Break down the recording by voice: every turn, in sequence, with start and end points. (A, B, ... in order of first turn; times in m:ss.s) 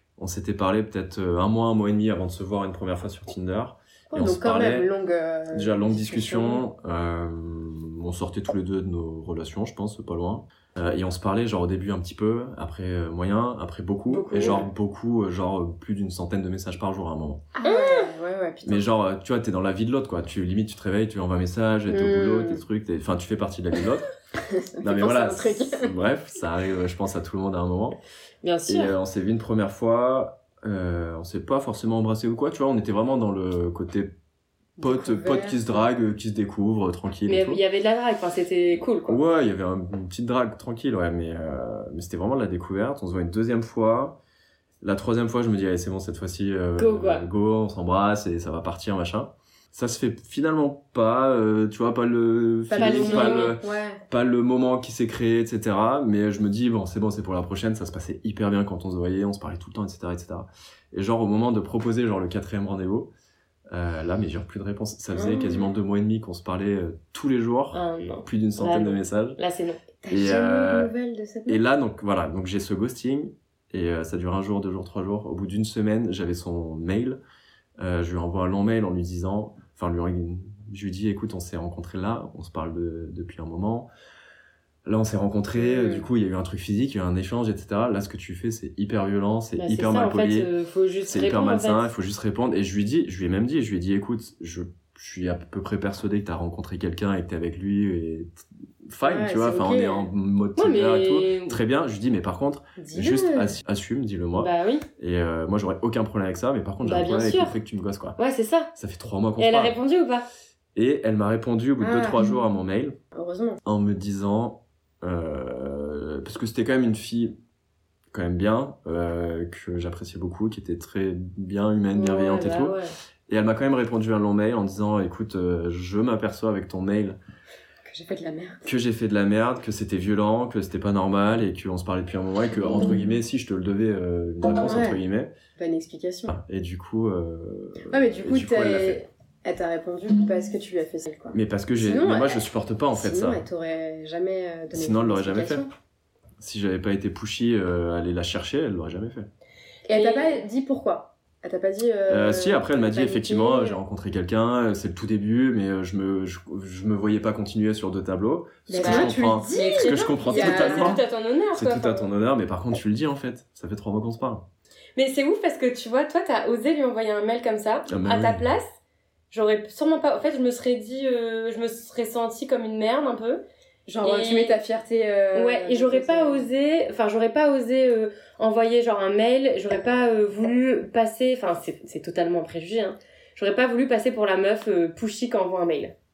0:00.2-0:04.9 A
0:04.1-0:06.6 B
0:05.5-0:17.4 A
0:14.1-0:14.7 B
0:14.3-0:14.6 C
0:17.6-0:18.9 B
0:17.6-0:18.1 C
0:18.7-0:24.0 A
0:21.9-0:22.6 B
0:24.4-0:25.9 B
0:24.8-0:28.0 A
0:28.4-0:29.0 C
0:28.7-0:34.1 A
0:34.8-0:35.9 B
0:34.8-0:37.6 A
0:37.3-0:39.2 C
0:39.1-0:44.2 A
0:44.8-1:03.1 A
0:46.8-0:47.3 C
0:52.7-0:54.0 B
0:52.8-0:53.6 C
1:03.7-1:09.4 A
1:05.2-1:05.7 B
1:07.7-1:09.8 C
1:10.0-1:11.6 B
1:10.1-1:10.9 A
1:11.5-1:17.2 A
1:17.8-1:23.9 A
1:24.8-1:30.5 A
1:25.6-1:26.1 B
1:29.6-1:31.9 C
1:31.1-1:48.2 A
1:39.0-1:40.1 B
1:40.6-1:41.6 C
1:42.8-1:43.5 B
1:44.4-1:44.9 C
1:46.8-1:47.6 C
1:48.2-1:48.7 C
1:48.8-1:49.8 A
1:49.4-1:50.3 C
1:50.8-1:53.0 A
1:51.8-1:52.4 B
1:53.1-1:53.6 B
1:53.6-1:57.4 A
1:58.1-2:02.8 A
2:01.9-2:02.9 C
2:03.3-2:07.2 A
2:07.9-2:08.6 B
2:08.6-2:15.3 A
2:14.6-2:15.0 B
2:15.6-2:16.3 B
2:16.3-2:19.0 A
2:17.9-2:25.7 B
2:21.3-2:23.4 A
2:24.7-2:25.6 A
2:26.4-2:29.3 A
2:29.9-2:33.8 B
2:29.9-2:30.4 C
2:32.1-2:44.4 A
2:38.7-2:41.0 B
2:38.8-2:42.1 C
2:45.0-2:48.7 C
2:47.9-2:48.5 A
2:49.3-2:53.4 C
2:53.9-2:56.5 B
2:54.0-2:54.6 C
2:55.3-3:05.9 C